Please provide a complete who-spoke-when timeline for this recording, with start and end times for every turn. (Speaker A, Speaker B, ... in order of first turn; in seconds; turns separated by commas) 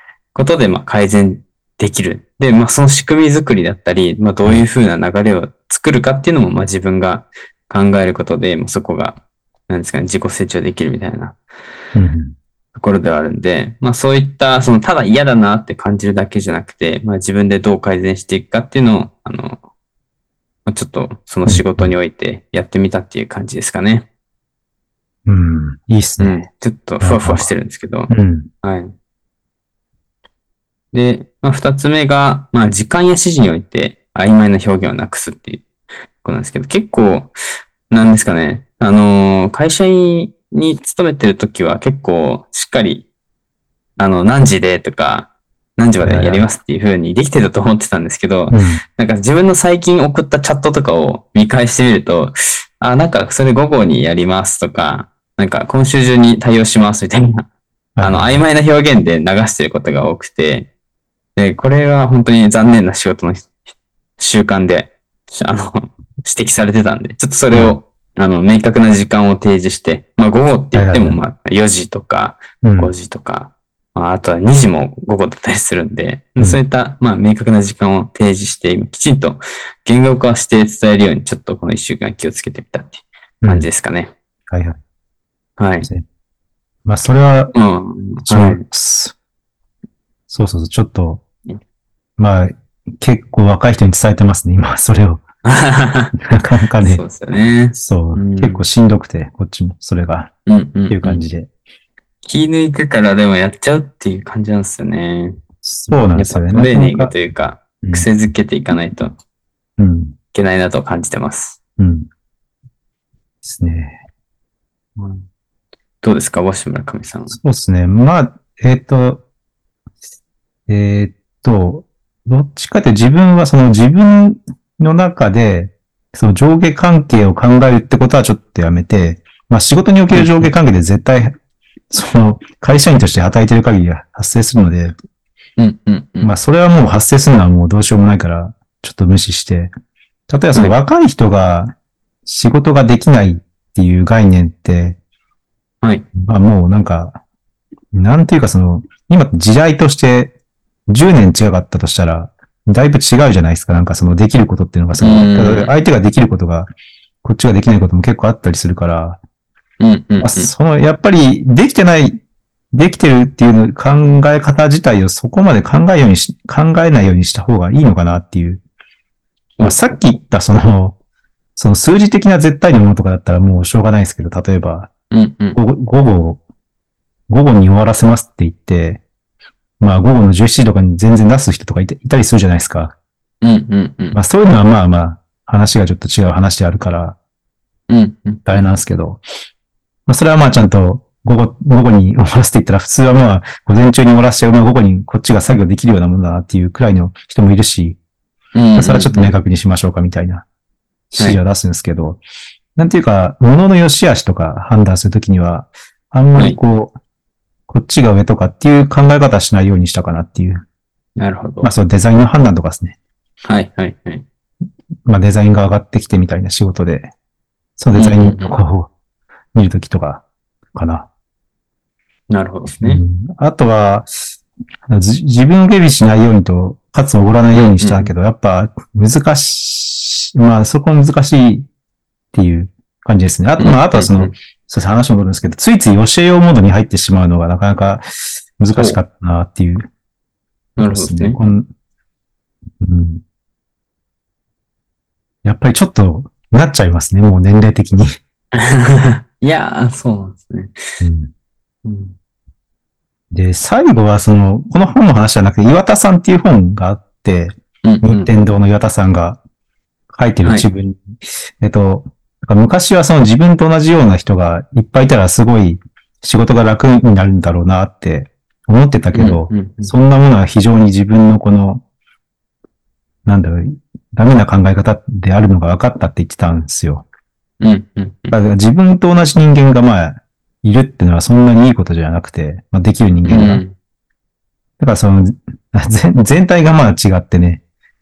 Speaker A: 0.3-11.4, Speaker B: 11.9-12.3, Speaker A: 12.8-19.6, Speaker A: 20.7-24.1, Speaker B: 21.5-21.9, Speaker B: 25.2-26.4, Speaker A: 26.2-28.9, Speaker B: 27.0-27.5, Speaker B: 28.1-28.5, Speaker A: 30.9-35.7, Speaker A: 36.2-37.3, Speaker A: 37.9-43.1, Speaker A: 44.0-57.5, Speaker B: 46.0-46.5, Speaker B: 48.5-48.8, Speaker B: 58.0-58.4, Speaker A: 58.0-60.7, Speaker A: 61.4-63.5, Speaker A: 64.2-84.1, Speaker B: 67.5-67.8, Speaker B: 70.7-71.2, Speaker B: 72.6-72.9, Speaker B: 83.4-83.7, Speaker B: 84.5-84.8, Speaker A: 85.6-85.9, Speaker B: 86.8-87.5, Speaker A: 87.5-88.7, Speaker B: 88.2-89.2, Speaker B: 90.3-91.2, Speaker B: 92.2-95.2, Speaker A: 95.4-96.2, Speaker B: 96.2-97.0, Speaker A: 96.8-98.6, Speaker B: 97.8-100.3, Speaker A: 100.5-101.2, Speaker B: 100.9-101.5, Speaker A: 102.2-105.4, Speaker B: 105.6-107.1, Speaker A: 106.1-109.2, Speaker B: 107.8-108.1, Speaker B: 109.8-110.2, Speaker A: 110.3-111.6, Speaker B: 111.8-112.1, Speaker B: 113.4-114.0, Speaker A: 115.0-115.3, Speaker A: 116.0-117.4, Speaker B: 117.3-119.2, Speaker B: 120.7-131.3, Speaker A: 130.1-130.5, Speaker B: 131.9-134.9, Speaker A: 135.6-136.3, Speaker B: 136.2-139.7, Speaker B: 140.3-141.7, Speaker B: 142.3-145.0, Speaker B: 146.2-147.2, Speaker B: 147.9-150.3, Speaker B: 150.9-156.7, Speaker A: 155.0-155.7, Speaker B: 157.2-159.2, Speaker A: 159.8-160.5, Speaker B: 160.2-162.2, Speaker B: 162.7-168.6, Speaker A: 169.6-170.0, Speaker B: 169.6-170.9, Speaker B: 171.6-174.9, Speaker A: 175.1-175.6, Speaker B: 175.5-176.4, Speaker B: 177.3-179.0, Speaker B: 179.8-182.9, Speaker A: 183.4-184.2, Speaker B: 184.1-187.2, Speaker A: 187.9-188.7, Speaker B: 188.5-189.2, Speaker B: 190.1-198.0, Speaker A: 198.6-199.3, Speaker B: 198.8-200.4, Speaker B: 201.1-202.2, Speaker B: 202.8-206.9, Speaker B: 207.7-210.7, Speaker A: 211.2-211.7, Speaker B: 211.6-212.9, Speaker A: 213.4-214.3, Speaker B: 215.1-217.1, Speaker B: 217.8-218.9, Speaker A: 217.9-218.6, Speaker B: 219.6-221.1, Speaker A: 222.3-223.0, Speaker B: 222.8-224.1, Speaker B: 224.9-231.7, Speaker A: 227.5-228.1, Speaker B: 232.3-239.9, Speaker A: 233.6-234.3, Speaker A: 238.7-239.0, Speaker A: 240.8-241.4, Speaker B: 240.8-241.7, Speaker B: 242.8-243.2, Speaker B: 245.4-248.2, Speaker A: 248.5-250.8, Speaker B: 251.0-251.3, Speaker A: 251.8-252.2, Speaker B: 253.3-259.4, Speaker A: 257.8-258.3, Speaker B: 260.1-271.8, Speaker A: 269.1-269.9, Speaker B: 273.3-277.1, Speaker A: 277.6-278.4, Speaker B: 278.3-283.6, Speaker A: 283.3-283.7, Speaker B: 284.8-287.6